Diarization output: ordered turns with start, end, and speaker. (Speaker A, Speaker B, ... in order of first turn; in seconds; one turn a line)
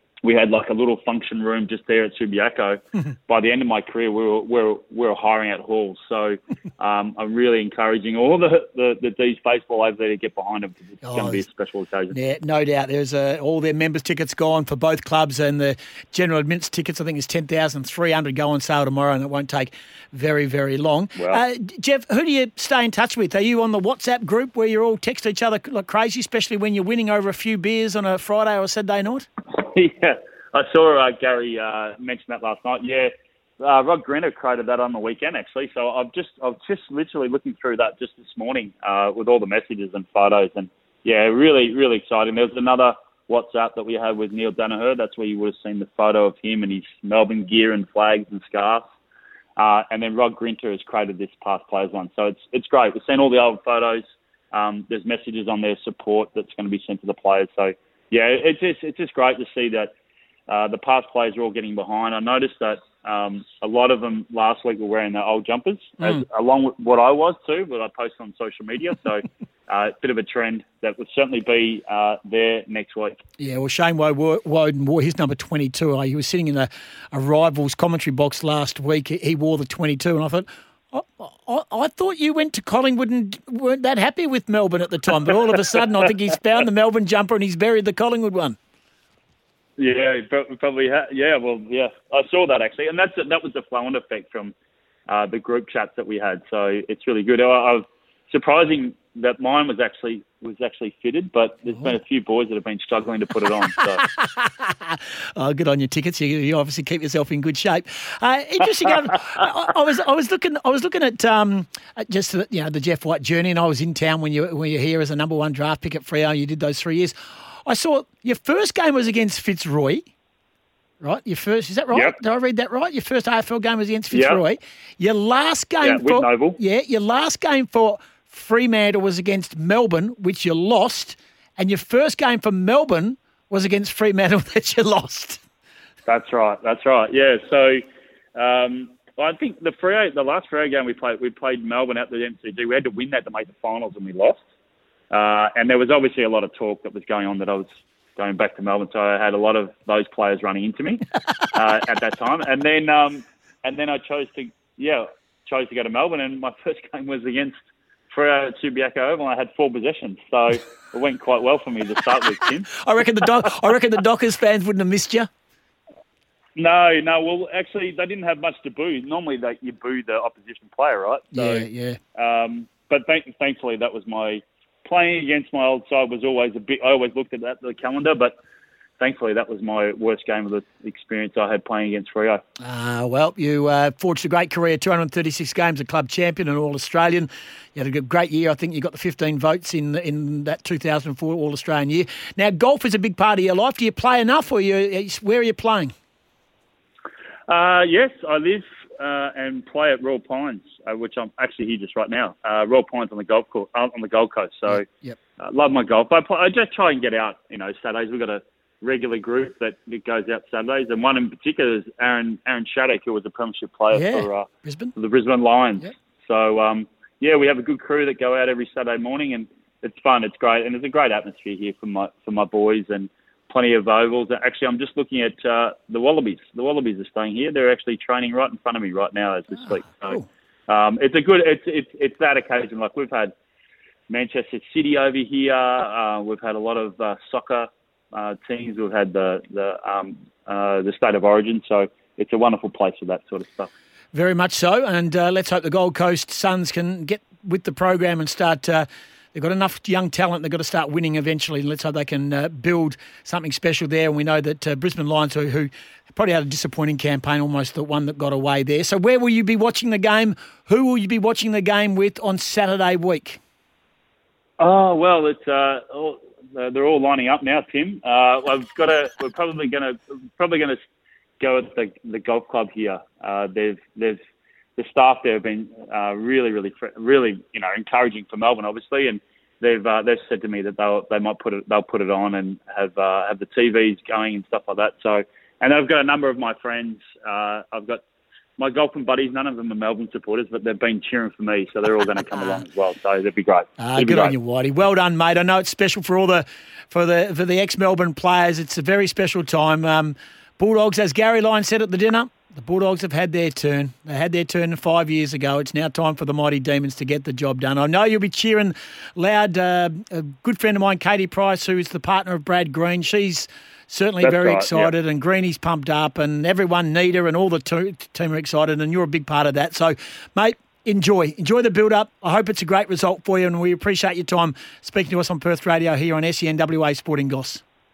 Speaker A: 0.2-12.2
Speaker B: 11.0-11.4
Speaker B: 12.1-29.3
Speaker A: 21.1-21.4
Speaker A: 29.5-48.8
Speaker A: 49.6-59.9
Speaker A: 60.5-73.2
Speaker B: 73.4-88.6
Speaker A: 89.8-94.5
Speaker A: 95.1-104.0
Speaker B: 104.0-120.1
Speaker B: 121.0-135.4
Speaker A: 121.9-122.2
Speaker A: 124.1-124.4
Speaker A: 125.8-126.6
Speaker A: 136.1-137.8
Speaker A: 138.3-144.4
Speaker A: 145.1-157.5
Speaker A: 158.1-162.8
Speaker B: 162.8-165.3
Speaker A: 166.6-178.3
Speaker B: 171.3-172.0
Speaker A: 179.0-182.4
Speaker B: 182.6-195.9
Speaker A: 197.5-204.9
Speaker B: 204.7-205.2
Speaker A: 205.4-233.3
Speaker B: 213.9-214.9
Speaker B: 229.6-230.3
Speaker A: 234.1-243.7
Speaker B: 244.1-263.4
Speaker A: 264.6-270.8
Speaker A: 271.4-274.2
Speaker A: 274.8-288.0
Speaker A: 288.6-294.3
Speaker B: 293.8-327.6
Speaker A: 314.2-314.9